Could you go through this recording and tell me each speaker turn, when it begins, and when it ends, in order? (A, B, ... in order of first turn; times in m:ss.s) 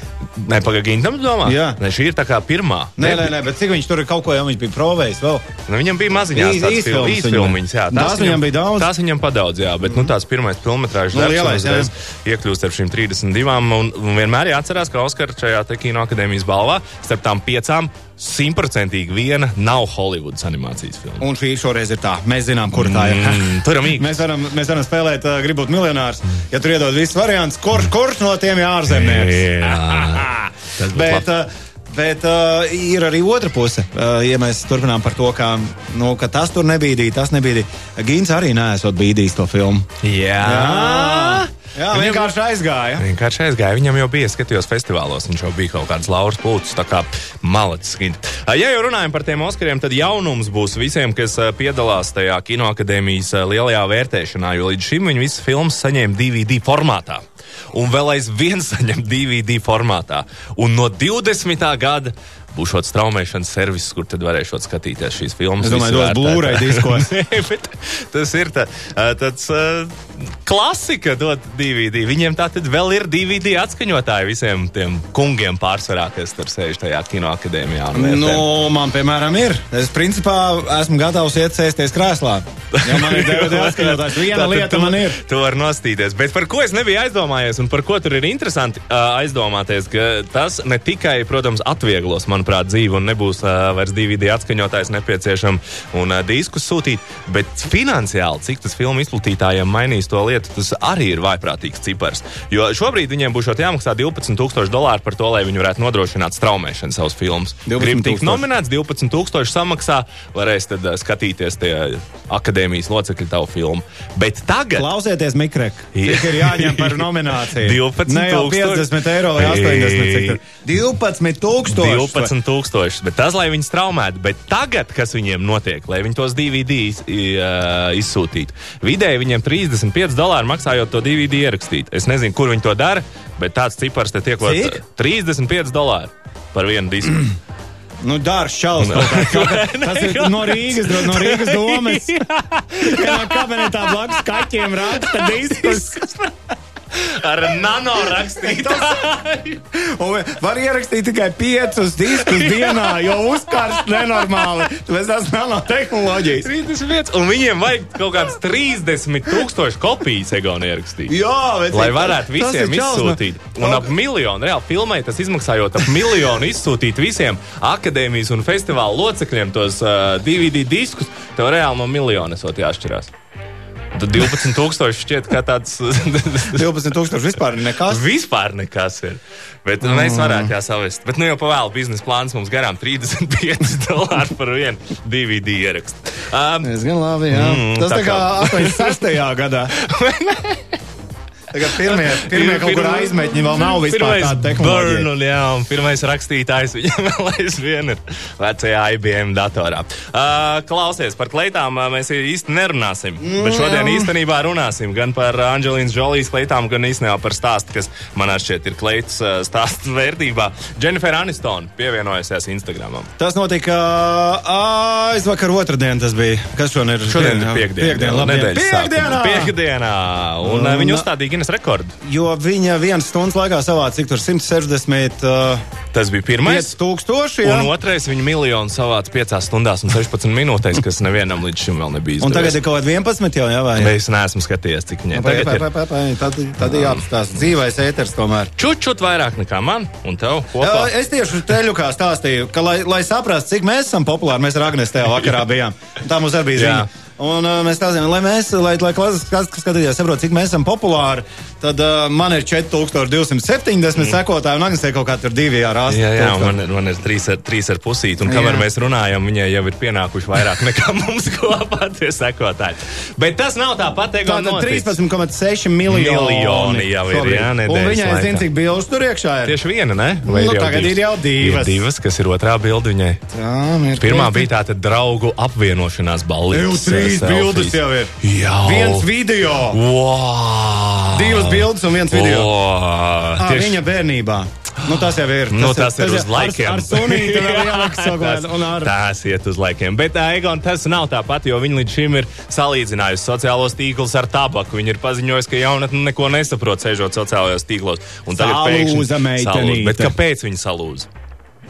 0:00.4-0:03.3 A
0:01.4-0:01.8 B
0:03.0-0:05.5 B
0:05.7-0:21.3 A
0:06.3-0:08.9 B
0:11.1-0:11.9 B
0:21.2-0:39.9 B
0:22.7-0:24.2 A
0:28.9-0:31.3 A
0:40.0-0:42.3 A
0:40.4-0:43.0 B
0:43.0-1:18.5 A
1:05.6-1:07.1 B
1:17.9-1:25.2 B
1:22.7-1:54.9 A
1:47.7-1:48.4 B
1:54.8-2:02.3 B
1:55.9-2:00.4 A
2:01.6-2:17.3 A
2:14.4-2:14.8 B
2:18.0-2:22.2 B
2:18.8-2:26.2 A
2:22.7-2:26.3 B
2:26.9-2:29.6 A
2:28.1-2:36.5 B
2:32.1-2:34.6 A
2:36.4-2:41.1 A
2:41.1-2:43.9 B
2:41.7-2:53.1 A
2:53.9-2:56.7 A
2:56.5-2:58.0 B
2:57.9-3:06.7 A
2:59.8-3:00.5 B
3:06.6-3:09.7 B
3:07.3-3:09.0 A
3:09.7-3:10.8 A
3:11.5-3:15.1 B
3:11.6-3:33.1 A
3:23.2-3:24.1 B
3:33.2-3:39.6 B
3:37.0-3:42.0 A
3:40.4-3:41.1 B
3:42.0-3:45.6 B
3:45.9-3:46.7 A
3:46.4-3:47.7 B
3:47.4-3:52.6 A
3:52.2-3:53.9 B
3:53.8-3:55.7 A
3:55.1-3:58.5 B
3:56.7-3:57.0 A
3:58.6-4:00.9 A
4:00.6-4:16.6 B
4:06.5-4:06.9 A
4:15.9-4:24.9 A
4:18.2-4:18.6 B
4:24.2-4:29.6 B
4:25.9-4:28.5 A
4:29.4-4:33.2 A
4:30.2-4:31.8 B
4:33.3-4:34.5 B
4:34.0-4:39.1 A
4:36.5-4:38.1 B
4:38.6-4:39.8 B
4:39.7-4:43.8 A
4:41.1-4:42.5 B
4:43.4-4:48.9 B
4:44.9-5:01.1 A
4:58.3-5:00.1 B